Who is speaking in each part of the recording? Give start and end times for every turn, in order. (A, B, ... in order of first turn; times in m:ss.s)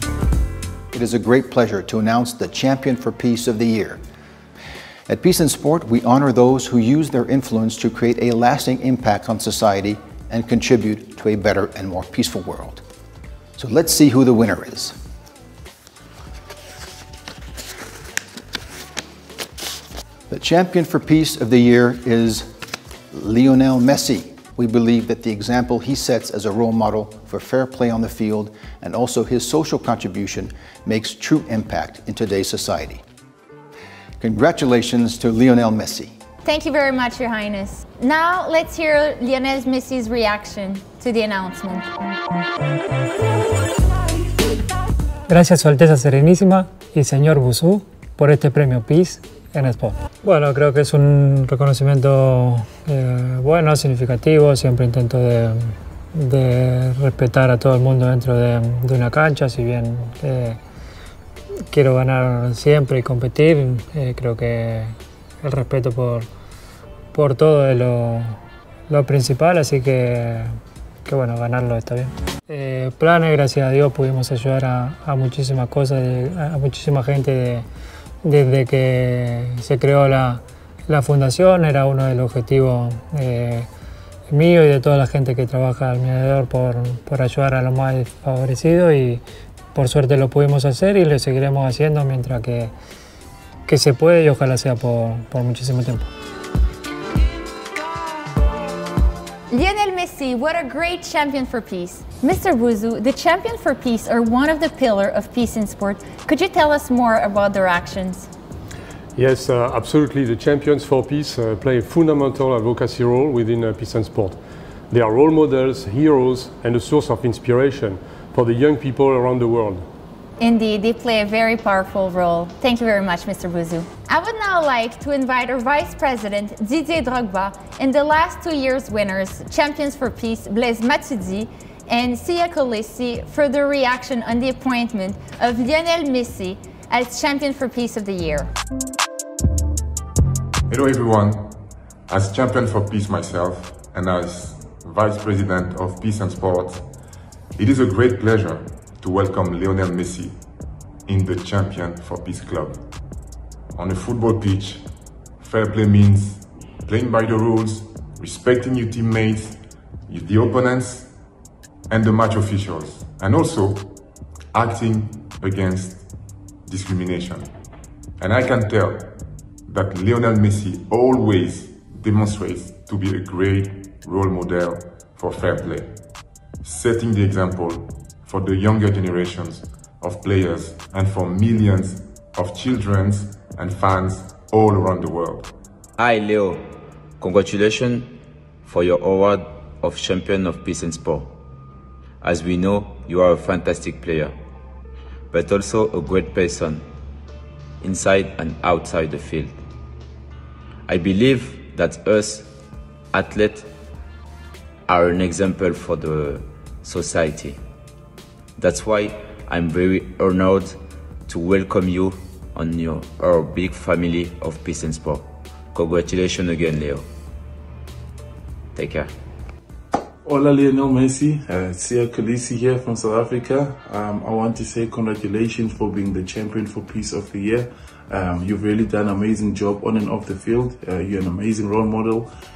0:00.9-0:04.0 A
0:05.1-0:12.8 A
0:13.6-0:15.0 A
0:20.3-0:22.5 A
0:23.1-0:33.0 A
0:34.2-0:36.1 A
0:36.4-0:41.9 B
0:45.3-1:00.6 C
1:01.7-1:06.3 C
1:07.1-1:08.4 C
1:08.9-1:17.7 C
1:18.2-1:23.7 C
1:24.3-1:29.2 C
1:29.7-1:32.7 C
1:33.7-1:36.1 C
1:39.5-1:48.3 B
1:49.2-1:54.4 D
1:54.9-1:59.8 D
2:00.4-2:18.5 B
2:20.7-2:21.6 E
2:22.1-2:26.8 E
2:27.6-2:30.4 E
2:31.1-2:32.8 E
2:33.7-2:34.8 E
2:35.4-2:41.1 E
2:41.9-2:43.9 E
2:44.5-2:46.0 E
2:46.7-2:47.5 E
2:48.2-2:49.1 E
2:49.7-2:56.0 E
2:56.6-3:05.5 E
3:06.0-3:06.6 F
3:07.2-3:11.3 F
3:12.2-3:14.3 F
3:15.3-3:16.8 F
3:17.8-3:19.6 F
3:20.9-3:22.5 F
3:23.1-3:23.7 F
3:24.9-3:27.6 F
3:28.6-3:30.8 F
3:31.3-3:37.0 F
3:38.8-3:39.1 F
3:40.2-3:52.3 G